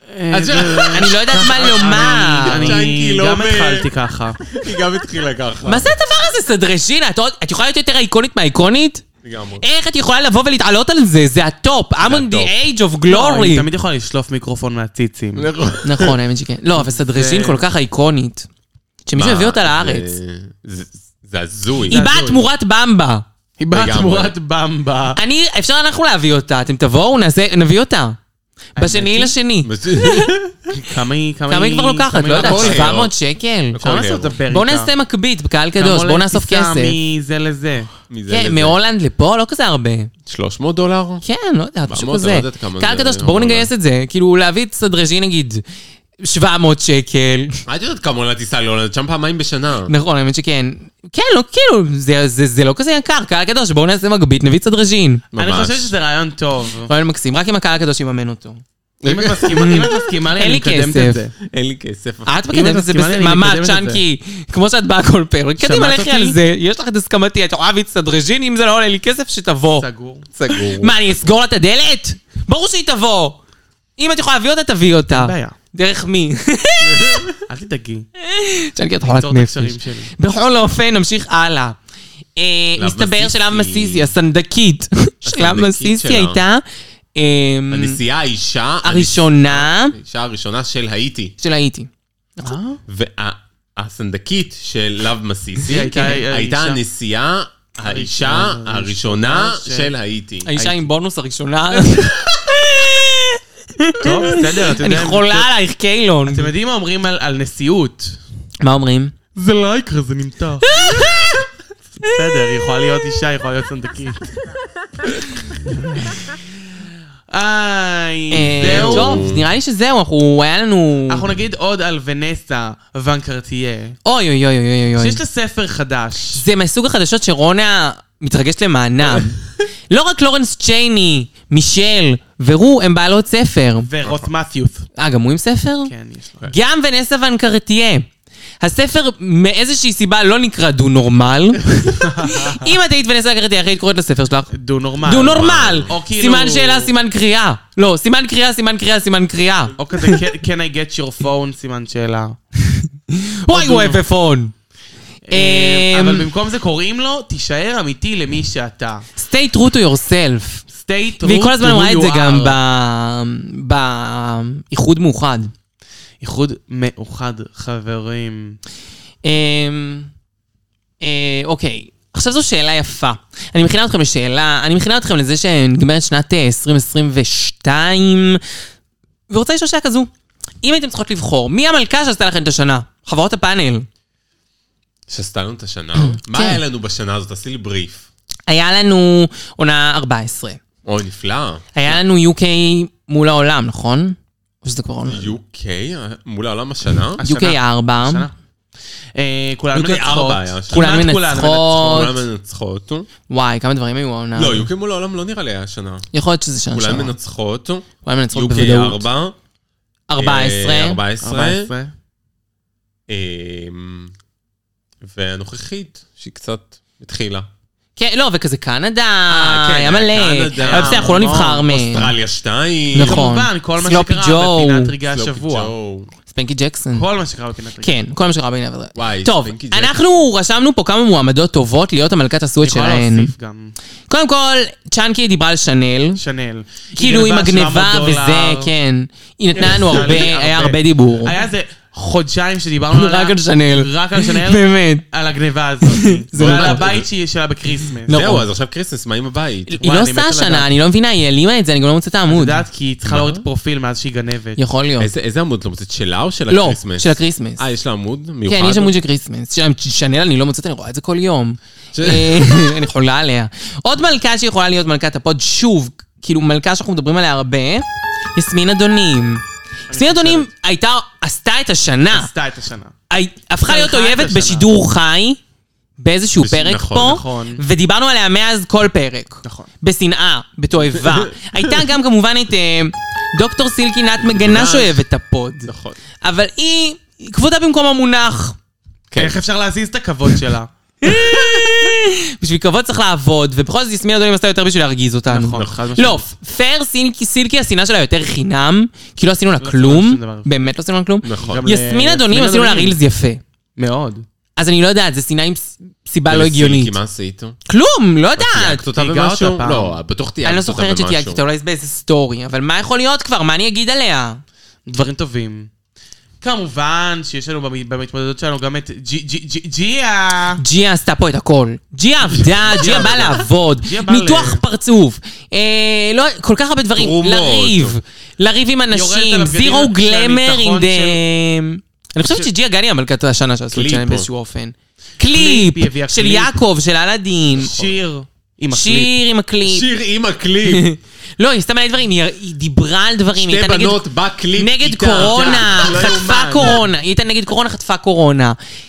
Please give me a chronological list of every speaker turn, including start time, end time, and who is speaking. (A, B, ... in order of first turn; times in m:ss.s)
0:00.1-0:04.4 A
0:00.3-0:03.9 B
0:00.9-0:02.8 C
0:04.4-0:05.9 B
0:05.6-0:09.0 C
0:09.2-0:09.6 B
0:09.6-0:13.6 C
0:12.0-0:12.5 B
0:13.0-0:15.5 A
0:15.3-0:16.2 B
0:15.8-0:18.5 C
0:16.9-0:17.6 A
0:19.0-0:20.2 C
0:19.1-0:22.4 B
0:21.9-0:23.2 C
0:23.6-0:25.2 A
0:23.7-0:24.3 B
0:25.2-0:28.2 C
0:28.8-0:29.3 A
0:28.8-0:30.3 C
0:29.6-0:30.7 B
0:30.7-0:33.0 A
0:31.5-0:33.8 C
0:32.3-0:33.1 B
0:33.7-0:34.3 B
0:33.8-0:34.9 A
0:34.5-0:36.9 C
0:35.8-0:37.9 A
0:38.1-0:38.8 B
0:38.3-0:40.1 C
0:40.2-0:41.2 B
0:41.2-0:45.6 C
0:41.9-0:43.7 B
0:46.2-0:47.6 C
0:47.7-0:49.9 B
0:49.9-0:55.2 C
0:55.3-0:55.9 B
0:55.3-0:56.9 A
0:56.9-0:58.6 C
0:59.0-0:59.9 B
0:59.0-1:01.3 A
0:59.6-1:01.2 C
1:01.4-1:02.3 B
1:02.2-1:09.9 C
1:02.5-1:04.0 A
1:05.6-1:06.4 A
1:09.8-1:10.3 A
1:10.4-1:11.0 B
1:10.5-1:13.4 C
1:14.0-1:17.3 C
1:15.1-1:15.5 A
1:16.9-1:17.4 B
1:17.5-1:18.1 A
1:18.2-1:21.8 C
1:19.0-1:20.1 A
1:22.4-1:28.0 C
1:22.8-1:24.1 B
1:25.2-1:26.4 B
1:27.7-1:31.3 B
1:28.8-1:30.0 C
1:31.4-1:31.9 C
1:32.4-1:32.8 A
1:32.9-1:40.5 B
1:35.7-1:36.8 A
1:35.7-1:36.2 C
1:37.8-1:39.9 A
1:40.4-1:46.5 C
1:44.0-1:45.5 A
1:46.2-1:48.2 A
1:48.6-1:49.1 C
1:49.4-1:51.1 A
1:50.6-1:51.4 C
1:52.0-1:54.3 A
1:55.9-1:56.2 A
1:57.3-1:59.2 A
1:58.3-2:01.2 C
1:58.6-1:59.5 B
2:01.1-2:04.0 A
2:04.0-2:05.2 C
2:05.0-2:06.4 A
2:06.4-2:13.9 C
2:13.8-2:14.8 A
2:14.0-2:14.3 B
2:15.0-2:15.9 C
2:15.8-2:16.5 A
2:16.4-2:18.1 C
2:18.6-2:24.5 C
2:22.0-2:22.6 A
2:24.5-2:26.9 A
2:25.0-2:30.2 C
2:25.2-2:25.9 B
2:29.8-2:32.4 A
2:32.6-2:34.5 C
2:33.5-2:34.0 A
2:35.3-2:39.1 A
2:35.3-2:36.3 C
2:39.2-2:40.6 C
2:40.7-2:42.6 A
2:41.2-2:45.5 C
2:46.2-2:48.6 A
2:49.2-2:50.1 C
2:51.0-2:58.4 C
2:59.3-3:00.1 C
3:00.6-3:03.9 C
3:05.1-3:08.0 B
3:06.2-3:06.6 C
3:08.5-3:10.6 C
3:10.8-3:12.0 B
3:11.7-3:15.3 C
3:15.1-3:17.2 B
3:17.2-3:18.3 A
3:17.2-3:18.3 C
3:19.2-3:22.1 A
3:19.7-3:20.8 B
3:20.7-3:22.2 C
3:21.8-3:23.1 B
3:23.3-3:24.7 C
3:24.4-3:26.1 B
3:26.1-3:27.1 C
3:26.7-3:29.4 B
3:28.0-3:29.0 C
3:30.1-3:31.0 C
3:30.2-3:31.7 B
3:31.2-3:31.9 A
3:33.1-3:34.1 B
3:35.0-3:37.5 B
3:38.0-3:42.1 C
3:39.3-3:43.2 B
3:40.6-3:41.6 A
3:42.9-3:44.9 C
3:43.0-3:45.7 A
3:45.1-3:46.1 B
3:46.3-3:47.0 C
3:46.9-3:48.0 A
3:47.8-3:53.3 C
3:48.9-3:50.0 B
3:52.6-3:53.7 A
3:54.1-3:56.2 C
3:56.2-3:58.7 A
3:57.0-4:01.4 C
3:59.6-4:08.2 A
3:59.7-4:00.2 B
4:02.9-4:05.0 C
4:05.8-4:06.8 C
4:06.3-4:07.1 B
4:08.1-4:08.4 C
4:08.1-4:09.8 B
4:09.7-4:12.6 C
4:09.8-4:10.7 A
4:12.3-4:14.6 A
4:13.0-4:13.4 B
4:14.6-4:15.1 C
4:15.0-4:19.0 B
4:16.5-4:17.6 C
4:18.5-4:27.8 C
4:21.9-4:22.6 B
4:28.4-4:32.3 C
4:29.9-4:30.5 A
4:32.1-4:32.9 A
4:33.1-4:35.4 C
4:33.6-4:34.7 A
4:36.0-4:45.7 C
4:36.4-4:37.2 B
4:36.9-4:37.6 A
4:39.4-4:39.7 A
4:40.9-4:41.6 B
4:44.3-4:44.9 B
4:45.7-4:46.0 B
4:46.2-4:48.6 C
4:49.1-4:49.4 B
4:49.2-4:50.7 A
4:51.0-5:03.4 C
4:51.0-4:51.7 B
4:55.3-4:56.2 A
4:55.5-4:55.8 B
4:59.6-5:00.5 A
5:01.2-5:01.6 B
5:01.4-5:03.0 A
5:03.8-5:04.2 A
5:04.6-5:06.9 C
5:06.3-5:07.6 B
5:07.7-5:08.8 C
5:08.4-5:11.4 B
5:08.9-5:10.0 A
5:10.4-5:14.4 C
5:14.9-5:15.7 A
5:16.4-5:20.6 A
5:20.6-5:37.7 C
5:22.6-5:24.6 A
5:27.0-5:28.0 B
5:28.9-5:31.2 A
5:33.7-5:34.3 B
5:35.2-5:36.6 A
5:37.6-5:39.1 A
5:38.7-5:39.9 C
5:39.6-5:40.9 B
5:40.6-5:44.0 C
5:43.4-5:46.7 B
5:44.5-5:48.6 C
5:45.1-5:46.8 A